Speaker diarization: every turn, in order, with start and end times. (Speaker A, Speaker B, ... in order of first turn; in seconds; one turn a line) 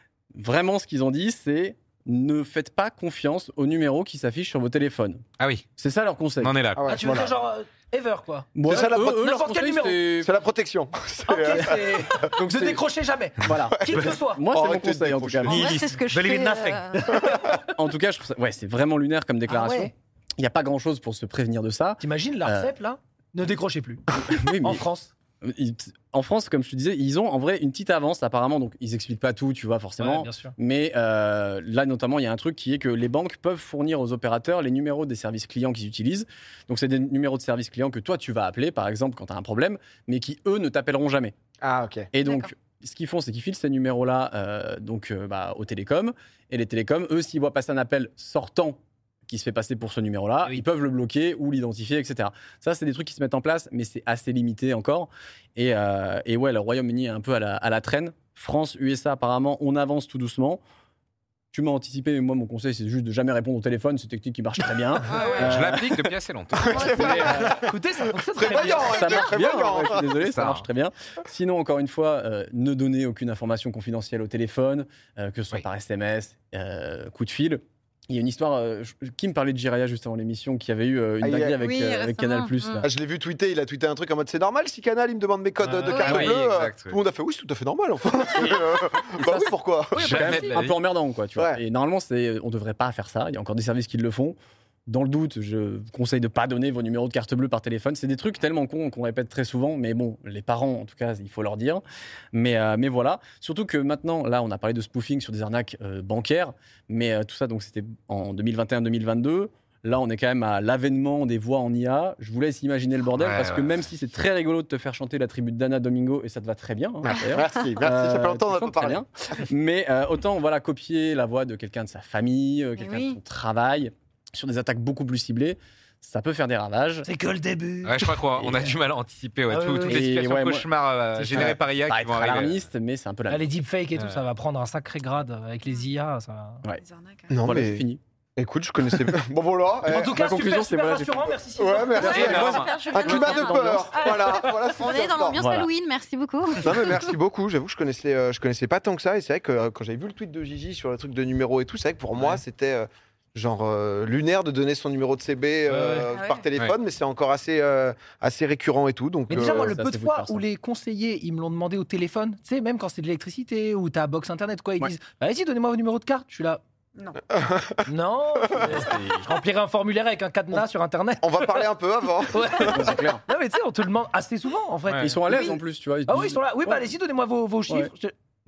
Speaker A: 0.3-5.2
Speaker B: 5.4-5.7
Speaker A: 5.8-6.5
Speaker B: 6.4-7.2
Speaker C: 6.8-7.3
Speaker D: 6.9-10.1
Speaker A: 8.6-10.3
Speaker C: 8.7-9.1
Speaker C: 10.2-12.1
Speaker D: 11.2-14.4
Speaker A: 12.4-12.8
Speaker A: 13.4-15.9
Speaker C: 13.8-15.9
Speaker E: 15.5-17.3
Speaker D: 16.1-17.6
Speaker C: 17.1-17.5
Speaker A: 17.5-22.7
Speaker D: 19.5-19.9
Speaker D: 22.0-24.1
Speaker A: 24.3-24.9
Speaker D: 24.6-25.1
Speaker A: 25.4-41.3
Speaker D: 30.0-30.5
Speaker C: 41.6-42.1
Speaker A: 42.1-60.6
Speaker E: 42.2-42.5
Speaker A: 61.5-66.0
Speaker E: 65.1-65.5
Speaker D: 65.2-65.8
Speaker B: 65.2-67.3
Speaker C: 66.6-67.7
Speaker E: 66.6-67.5
Speaker A: 66.7-67.7
Speaker D: 67.2-69.2
Speaker C: 68.3-70.2
Speaker A: 68.6-82.9
Speaker B: 70.1-70.7
Speaker C: 81.2-81.5
Speaker E: 81.5-82.9
Speaker C: 82.8-90.2
Speaker D: 85.6-86.0
Speaker B: 85.9-87.0
Speaker A: 86.0-86.4
Speaker A: 89.2-94.4
Speaker B: 90.0-90.8
Speaker D: 90.0-90.5
Speaker A: 94.9-127.1
Speaker B: 113.2-113.8
Speaker C: 117.3-119.0
Speaker E: 122.8-123.2
Speaker D: 127.0-128.2
Speaker B: 127.8-132.6
Speaker A: 128.4-128.8
Speaker D: 129.5-130.1
Speaker A: 129.8-130.7
Speaker D: 131.2-131.5
Speaker A: 131.3-133.5
Speaker D: 133.3-136.6
Speaker B: 133.9-134.2
Speaker E: 136.8-137.3
Speaker C: 137.3-140.2
Speaker A: 137.4-138.0
Speaker D: 139.9-142.5
Speaker A: 140.1-141.3
Speaker C: 141.6-145.4
Speaker E: 141.9-147.1
Speaker B: 142.0-143.2
Speaker A: 142.1-144.3
Speaker A: 145.4-145.7
Speaker C: 146.6-159.7
Speaker D: 155.7-156.1
Speaker E: 156.1-156.5
Speaker D: 159.3-166.6
Speaker A: 159.4-160.4
Speaker E: 167.0-167.2
Speaker C: 167.4-167.8
Speaker D: 167.9-171.7
Speaker A: 168.6-169.3
Speaker C: 171.2-172.8
Speaker D: 172.3-175.6
Speaker A: 172.7-173.2
Speaker A: 174.9-176.9
Speaker E: 175.3-175.6
Speaker D: 176.1-178.1